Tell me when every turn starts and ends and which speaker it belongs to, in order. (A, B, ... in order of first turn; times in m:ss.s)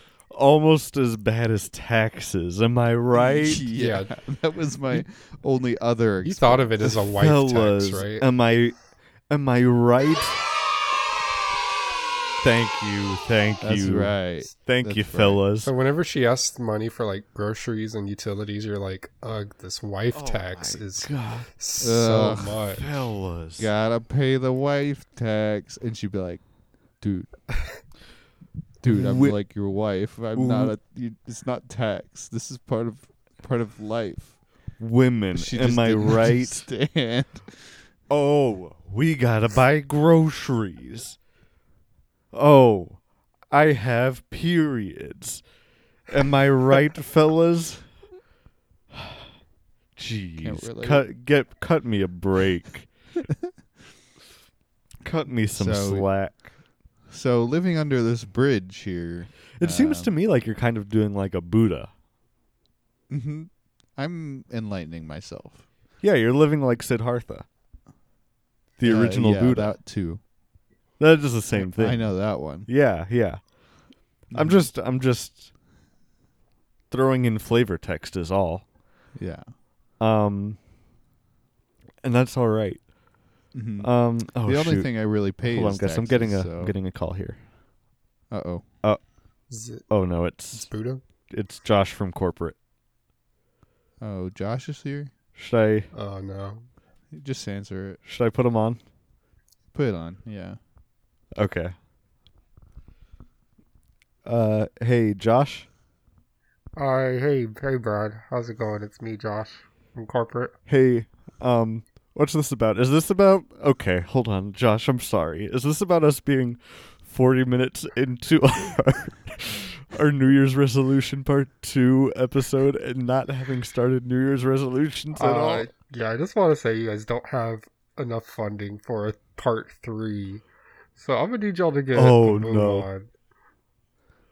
0:00.3-0:03.6 A
0:03.1-0:07.0 B
0:03.7-0:04.1 C
0:06.2-0:08.2 C
0:07.2-0:10.5 A
0:12.4-0:15.7 A
0:13.6-0:15.4 B
0:15.6-0:22.8 C
0:20.1-0:21.5 A
0:21.8-0:22.6 B
0:22.7-0:23.7 A
0:23.6-0:27.3 B
0:28.8-0:34.4 B
0:28.9-0:29.4 A
0:30.3-0:30.7 A
0:34.8-0:36.6 A
0:35.3-0:37.8 B
0:38.1-0:41.2 A
0:42.3-0:45.4 A
0:46.1-0:47.9 A
0:48.9-0:49.3 A
0:50.0-0:52.9 A
0:50.4-0:51.0 B
0:55.0-0:56.4 A
0:55.5-0:56.4 B
0:57.1-1:00.1 B
0:59.6-1:01.9 A
1:03.1-1:05.6 B
1:06.0-1:07.4 A
1:08.8-1:09.8 A
1:08.8-1:10.2 B
1:11.0-1:13.4 A
1:11.6-1:12.7 B
1:14.3-1:15.5 A
1:14.3-1:14.7 B
1:16.9-1:18.6 A
1:19.2-1:19.5 B
1:20.0-1:20.6 A
1:22.0-1:22.9 A
1:23.5-1:26.7 B
1:23.8-1:27.4 A
1:28.3-1:28.6 B
1:29.5-1:29.8 C
1:29.9-1:30.7 A
1:30.5-1:31.0 C
1:31.3-1:32.6 A
1:34.0-1:35.1 B
1:35.3-1:35.9 A
1:35.9-1:36.7 C
1:37.1-1:38.0 B
1:38.0-1:38.8 A
1:39.7-1:40.6 B
1:41.3-1:41.7 A
1:44.2-1:45.7 A
1:46.8-1:50.5 C
1:50.7-2:05.7 A
2:05.1-2:13.1 C
2:11.9-2:12.9 A